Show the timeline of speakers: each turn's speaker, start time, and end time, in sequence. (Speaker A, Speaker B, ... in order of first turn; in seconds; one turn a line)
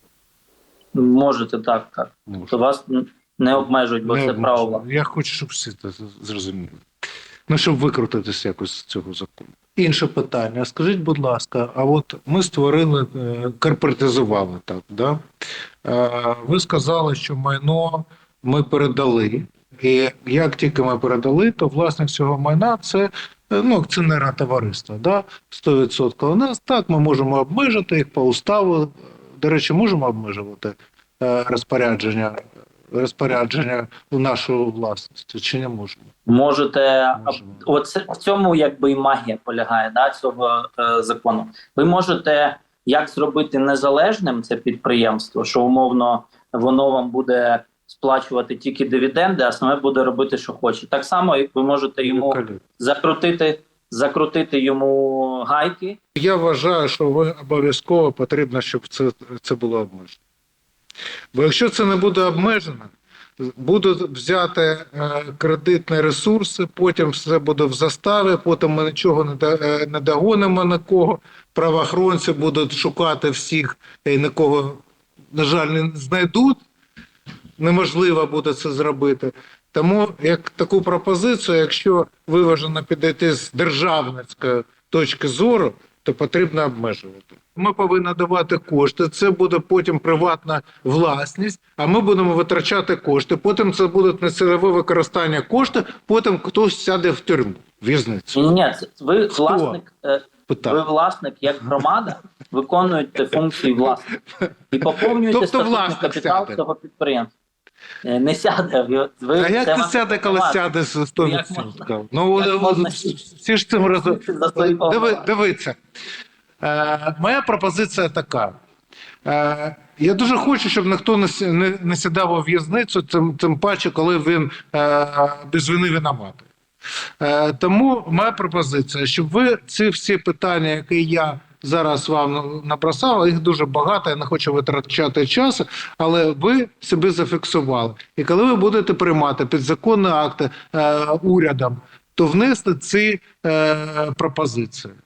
Speaker A: 0.9-4.8
Speaker B: 2.3-2.5
Speaker B: 4.0-6.8
Speaker B: 7.5-15.2
Speaker B: 15.8-32.4
Speaker B: 32.9-36.1
Speaker A: 36.3-56.0
Speaker B: 37.1-37.6
Speaker B: 52.0-52.6
Speaker B: 56.1-60.2
Speaker B: 61.3-76.6
Speaker B: 77.6-98.5
Speaker A: 98.3-104.1
Speaker B: 99.3-99.8
Speaker B: 100.5-100.8
Speaker A: 104.7-107.3
Speaker B: 104.8-106.6
Speaker A: 108.0-113.2
Speaker B: 109.3-115.8
Speaker A: 113.8-115.3
Speaker B: 116.6-118.6
Speaker B: 119.2-126.5
Speaker B: 127.2-144.9